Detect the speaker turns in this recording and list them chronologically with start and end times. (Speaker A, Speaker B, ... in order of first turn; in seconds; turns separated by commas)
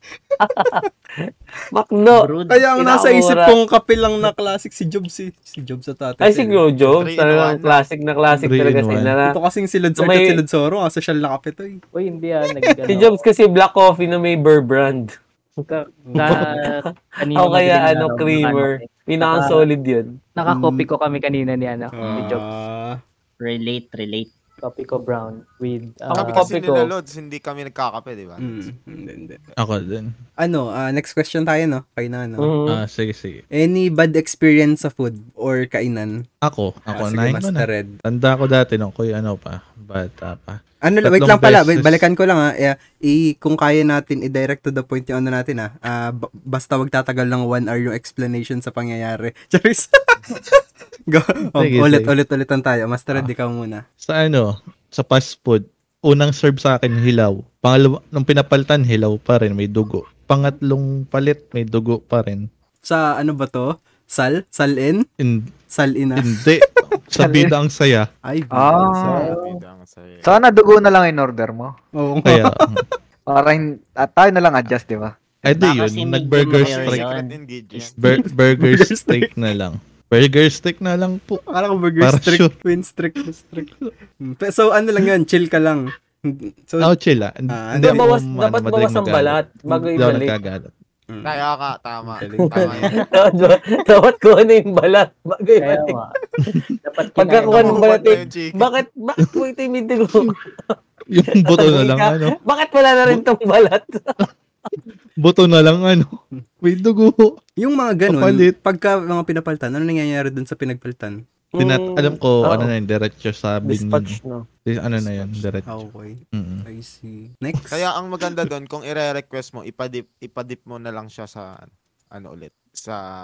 Speaker A: 0.3-0.7, Speaker B: 0.4-3.5, Speaker C: 2.1-2.6, Speaker A: 2.5-6.6, Speaker B: 6.2-9.3, Speaker D: 6.9-7.8, Speaker E: 8.4-9.1, Speaker A: 9.3-11.8, Speaker B: 10.0-10.4, Speaker F: 11.9-13.2, Speaker B: 12.9-15.1, Speaker F: 15.7-19.7, Speaker A: 16.1-16.5, Speaker B: 16.2-20.1, Speaker F: 20.4-22.5, Speaker A: 20.4-20.9, Speaker A: 21.9-23.0, Speaker C: 22.0-22.3, Speaker C: 23.4-24.3, Speaker F: 24.6-26.5, Speaker D: 26.1-28.6, Speaker B: 26.1-26.9, Speaker A: 28.4-29.4, Speaker E: 29.6-30.1, Speaker A: 30.4-32.5, Speaker B: 32.4-32.8, Speaker E: 32.7-33.4, Speaker A: 33.5-36.1, Speaker E: 36.4-42.0, Speaker A: 36.9-38.0, Speaker A: 40.8-53.8, Speaker E: 51.5-52.1, Speaker E: 54.0-62.4, Speaker A: 62.8-65.0, Speaker E: 65.2-65.5, Speaker A: 65.7-66.4, Speaker E: 66.2-68.1, Speaker G: 67.2-67.5, Speaker A: 68.2-69.3, Speaker G: 68.6-69.5, Speaker D: 69.0-70.3, Speaker G: 70.2-71.7, Speaker A: 71.9-72.6, Speaker E: 72.2-72.8, Speaker G: 73.3-75.1, Speaker E: 75.4-77.1, Speaker C: 75.6-77.3, Speaker D: 76.5-78.0, Speaker E: 78.0-81.4, Speaker A: 78.1-79.3, Speaker A: 81.5-83.7, Speaker E: 82.0-82.5, Speaker E: 83.6-83.9, Speaker A: 84.2-86.9, Speaker E: 86.8-90.7, Speaker A: 87.5-88.1, Speaker B: 87.8-90.4, Speaker A: 91.1-91.4, Speaker D: 91.2-93.1, Speaker A: 92.0-92.9, Speaker B: 92.5-95.9, Speaker F: 95.6-96.1, Speaker F: 96.8-98.1, Speaker B: 97.2-100.8, Speaker D: 97.5-98.7, Speaker E: 101.1-102.3, Speaker B: 101.3-104.1, Speaker E: 105.2-106.1, Speaker E: 106.6-107.3, Speaker A: 107.6-111.2, Speaker E: 108.1-108.5, Speaker B: 111.5-112.7, Speaker E: 111.6-116.6, Speaker B: 113.6-114.4, Speaker D: 115.0-115.3, Speaker A: 115.7-117.8, Speaker D: 117.7-123.0